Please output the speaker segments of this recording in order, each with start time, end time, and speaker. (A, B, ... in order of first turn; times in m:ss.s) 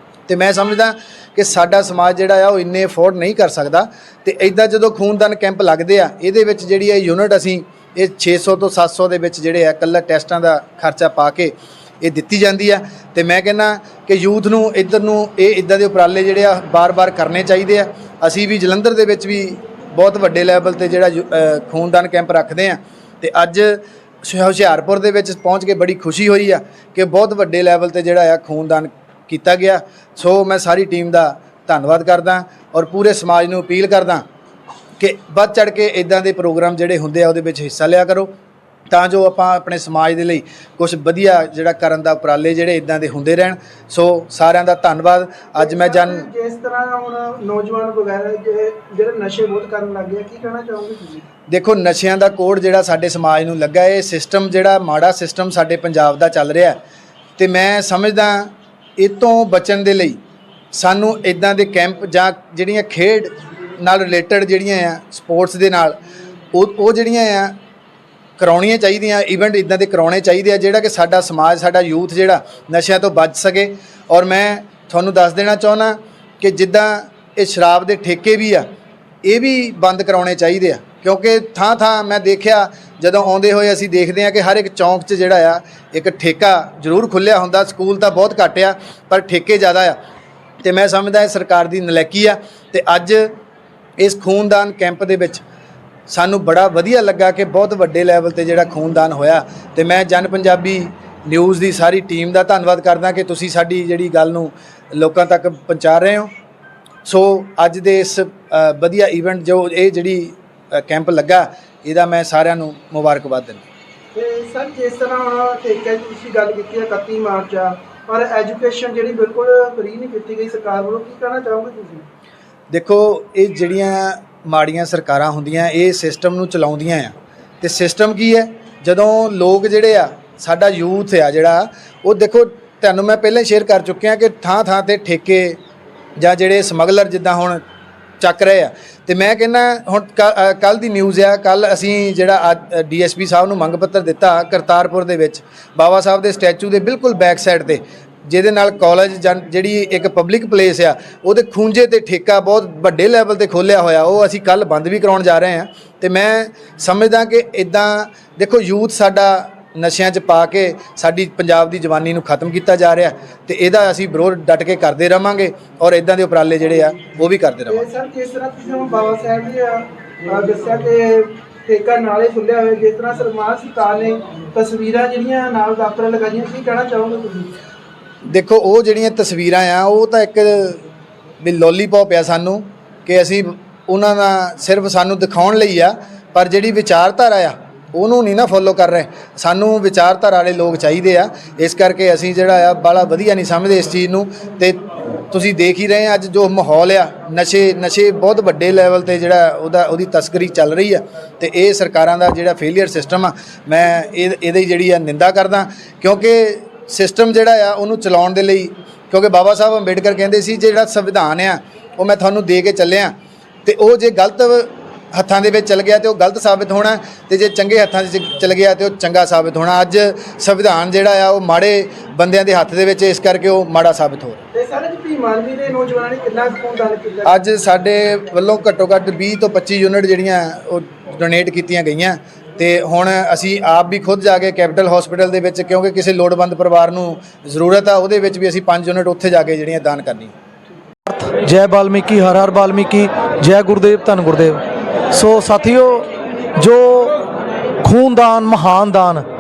0:00.3-0:34.2 A
0:35.0-0:38.3 A
0:38.9-0:46.3 A
0:45.6-0:51.2 B
0:51.5-0:56.8 A
0:57.4-1:00.2 A
1:00.7-1:06.0 A
1:06.5-1:07.6 A
1:08.4-1:18.6 A
1:19.2-1:30.0 A
1:30.6-1:33.3 A
1:34.0-1:35.4 A
1:36.1-1:46.3 A
1:47.0-1:53.6 A
1:54.1-2:02.0 B
2:02.7-2:15.6 A
2:16.2-2:17.6 A
2:18.2-2:47.8 A
2:47.7-2:57.5 B
2:58.3-3:00.8 A
3:01.4-3:14.8 A
3:15.3-3:33.1 A
3:33.6-3:44.4 A
3:44.5-3:47.4 B
3:47.3-4:00.3 A
4:01.1-4:04.6 C
4:05.1-4:06.1 C
4:06.6-4:07.1 C
4:07.8-4:09.2 C